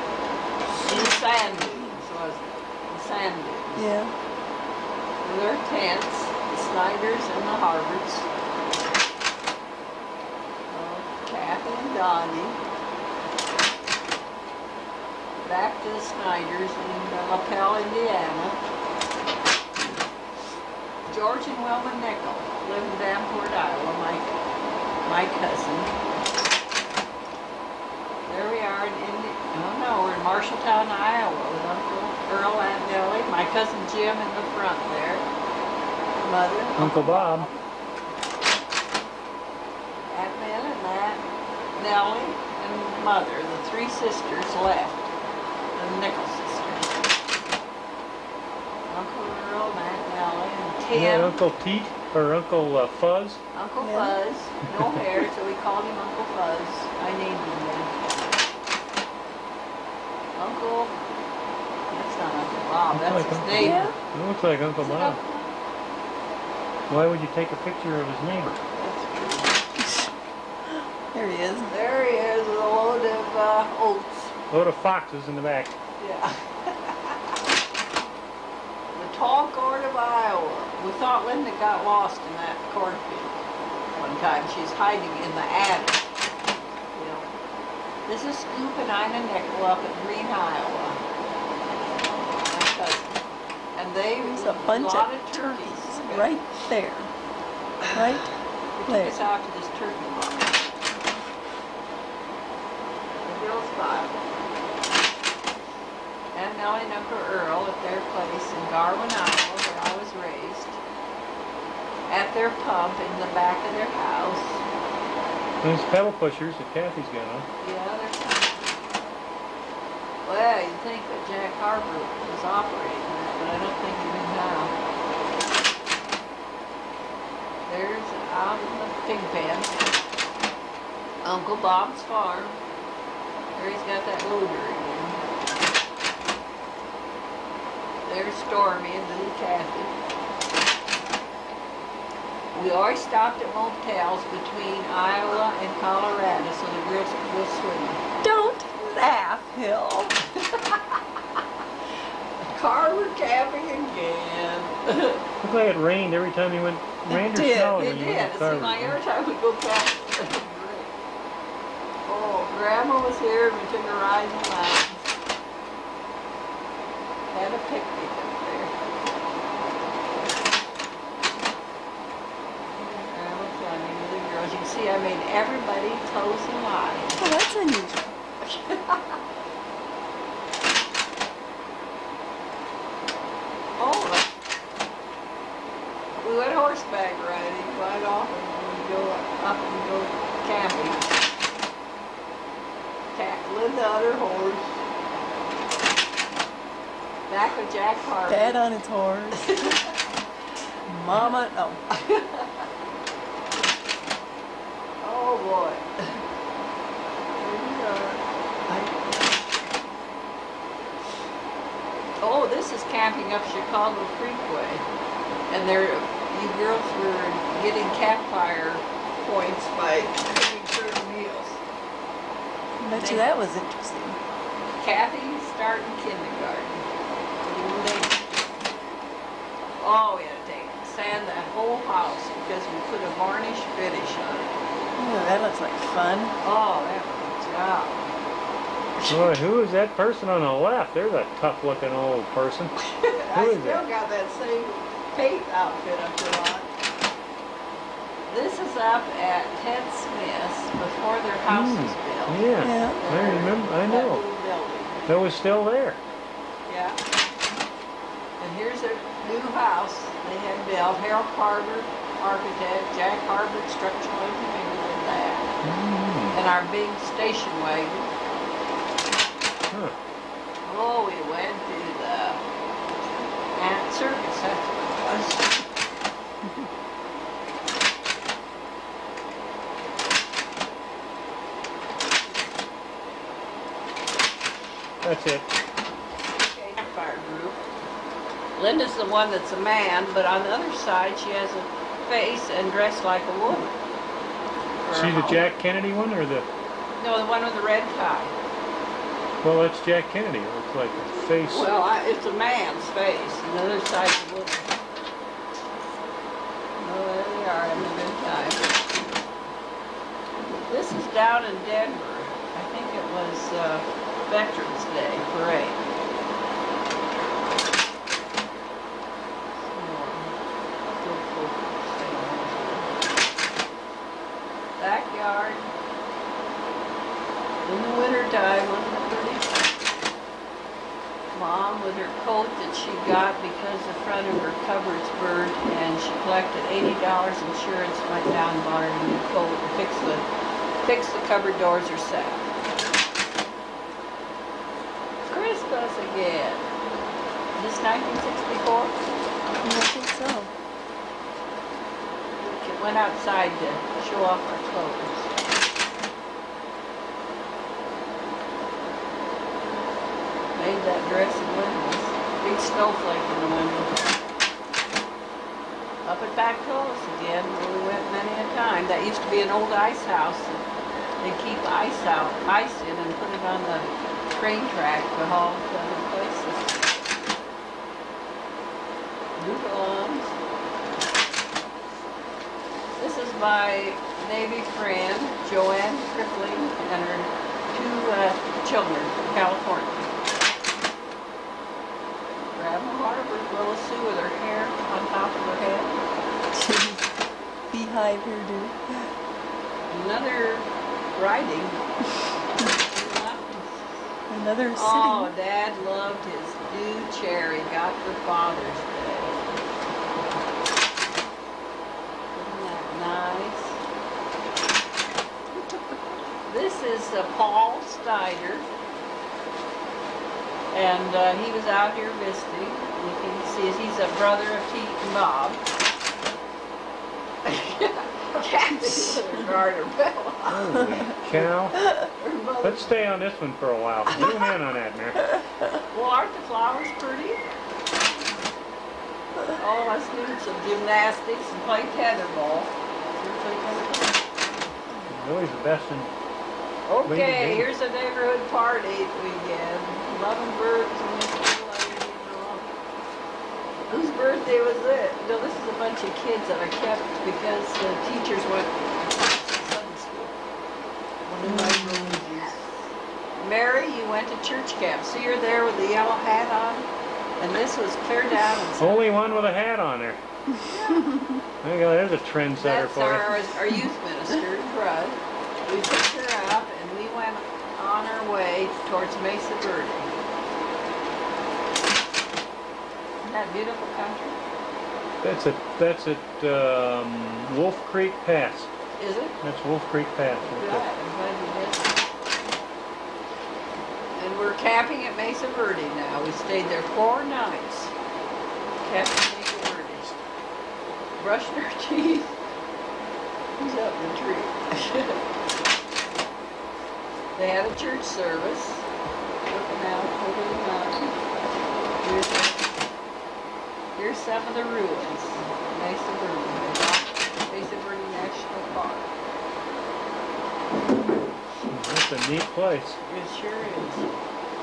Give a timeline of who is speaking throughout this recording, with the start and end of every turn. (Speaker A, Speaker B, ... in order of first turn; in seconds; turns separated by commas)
Speaker A: 0.7-3.9, Speaker B: 3.8-4.1, Speaker A: 5.2-8.3, Speaker A: 10.7-12.6, Speaker A: 15.4-18.6, Speaker A: 21.1-24.4, Speaker A: 25.0-25.9, Speaker A: 28.3-35.3, Speaker A: 36.2-37.6, Speaker C: 36.8-37.5, Speaker A: 40.1-41.2, Speaker A: 41.8-45.1, Speaker A: 45.7-46.9, Speaker A: 48.9-51.4, Speaker C: 50.9-53.4, Speaker A: 53.5-57.9, Speaker B: 53.8-54.1, Speaker A: 60.4-60.9, Speaker A: 61.9-63.9, Speaker C: 62.9-65.2, Speaker B: 63.5-64.0, Speaker A: 64.8-65.5, Speaker C: 66.9-68.6, Speaker A: 68.7-69.6, Speaker B: 69.8-70.1, Speaker B: 70.7-71.7, Speaker A: 71.7-74.3, Speaker C: 74.5-75.7, Speaker A: 76.0-77.2, Speaker A: 78.9-83.4, Speaker A: 83.9-86.1, Speaker A: 86.9-87.3, Speaker A: 88.0-91.0, Speaker A: 92.5-93.2, Speaker A: 93.7-96.3, Speaker B: 94.2-97.1, Speaker A: 97.8-100.6, Speaker B: 97.9-98.3, Speaker B: 98.9-99.2, Speaker A: 103.2-104.1, Speaker A: 106.3-110.8, Speaker A: 112.1-114.6, Speaker C: 115.6-117.5, Speaker A: 117.6-118.8, Speaker A: 120.2-124.7, Speaker A: 127.7-130.0, Speaker A: 131.2-132.6, Speaker A: 133.5-135.2, Speaker A: 138.0-139.9, Speaker A: 142.5-148.0, Speaker B: 148.2-150.1, Speaker A: 150.3-151.0, Speaker A: 152.5-155.2, Speaker C: 155.4-159.0, Speaker B: 157.1-157.8, Speaker A: 157.7-160.9, Speaker A: 162.1-165.1, Speaker A: 167.3-168.7, Speaker A: 172.8-177.2, Speaker B: 177.2-178.2, Speaker A: 178.4-179.2, Speaker A: 183.8-184.3, Speaker A: 186.2-191.1, Speaker A: 193.1-194.8, Speaker A: 197.3-198.6, Speaker B: 198.3-199.7, Speaker A: 199.3-199.9, Speaker B: 200.9-201.8, Speaker A: 201.9-202.7, Speaker A: 205.0-206.2, Speaker A: 207.4-209.1, Speaker A: 212.2-214.8, Speaker A: 215.5-221.6, Speaker B: 222.8-224.2, Speaker A: 222.9-223.2, Speaker A: 224.8-226.8, Speaker A: 227.4-228.5, Speaker A: 229.8-234.5, Speaker B: 235.0-236.3, Speaker A: 236.4-238.1, Speaker C: 239.1-242.7, Speaker A: 242.8-246.7, Speaker C: 243.3-243.8, Speaker A: 248.3-252.4, Speaker C: 251.5-254.2, Speaker B: 252.6-253.0, Speaker A: 252.9-255.2, Speaker C: 255.1-256.0, Speaker A: 256.7-257.0, Speaker A: 258.4-265.5, Speaker C: 265.6-266.4, Speaker A: 266.3-268.1, Speaker C: 269.7-269.9, Speaker A: 270.6-272.4, Speaker A: 273.5-275.6, Speaker C: 285.0-285.5, Speaker A: 286.4-287.6, Speaker A: 288.6-293.7, Speaker A: 294.8-295.4, Speaker C: 294.9-296.4, Speaker A: 297.0-298.3, Speaker C: 299.4-301.7, Speaker A: 301.5-304.7, Speaker A: 306.8-309.2, Speaker A: 310.6-315.8, Speaker A: 319.6-320.3, Speaker A: 320.9-323.1, Speaker A: 324.8-325.7, Speaker A: 327.6-329.5, Speaker A: 331.3-340.2, Speaker A: 340.8-342.5, Speaker A: 345.2-346.7, Speaker A: 347.6-349.0, Speaker B: 349.6-350.5, Speaker A: 352.4-355.3, Speaker A: 360.6-364.1, Speaker A: 366.0-370.6, Speaker A: 371.2-376.8, Speaker A: 379.4-380.3, Speaker A: 383.0-390.1, Speaker A: 392.6-396.0, Speaker B: 396.5-397.1, Speaker B: 397.7-399.1, Speaker A: 399.9-401.8, Speaker A: 402.6-403.9, Speaker B: 404.3-405.3, Speaker A: 404.7-409.3, Speaker A: 412.3-413.8, Speaker A: 416.4-418.7, Speaker A: 420.7-425.6, Speaker A: 427.4-430.8, Speaker C: 430.5-431.8, Speaker A: 432.2-432.9, Speaker C: 432.6-435.2, Speaker A: 435.9-437.4, Speaker A: 439.6-444.2, Speaker C: 445.1-446.1, Speaker A: 446.9-452.7, Speaker C: 447.0-447.7, Speaker A: 453.9-460.4, Speaker A: 461.2-462.8, Speaker B: 461.4-462.2, Speaker A: 463.4-466.9, Speaker A: 467.4-469.4, Speaker C: 468.8-470.2, Speaker A: 470.6-471.1, Speaker C: 471.6-473.4, Speaker A: 472.6-480.1, Speaker A: 483.2-484.4, Speaker C: 485.2-488.7, Speaker A: 489.0-489.4, Speaker C: 489.4-490.8, Speaker A: 490.4-492.0, Speaker A: 494.1-497.9, Speaker A: 498.8-500.1, Speaker A: 501.2-502.3, Speaker A: 503.6-505.2, Speaker A: 507.4-508.9, Speaker A: 509.4-511.1, Speaker A: 512.0-512.7, Speaker A: 514.0-519.1, Speaker C: 521.7-523.0, Speaker A: 523.0-524.1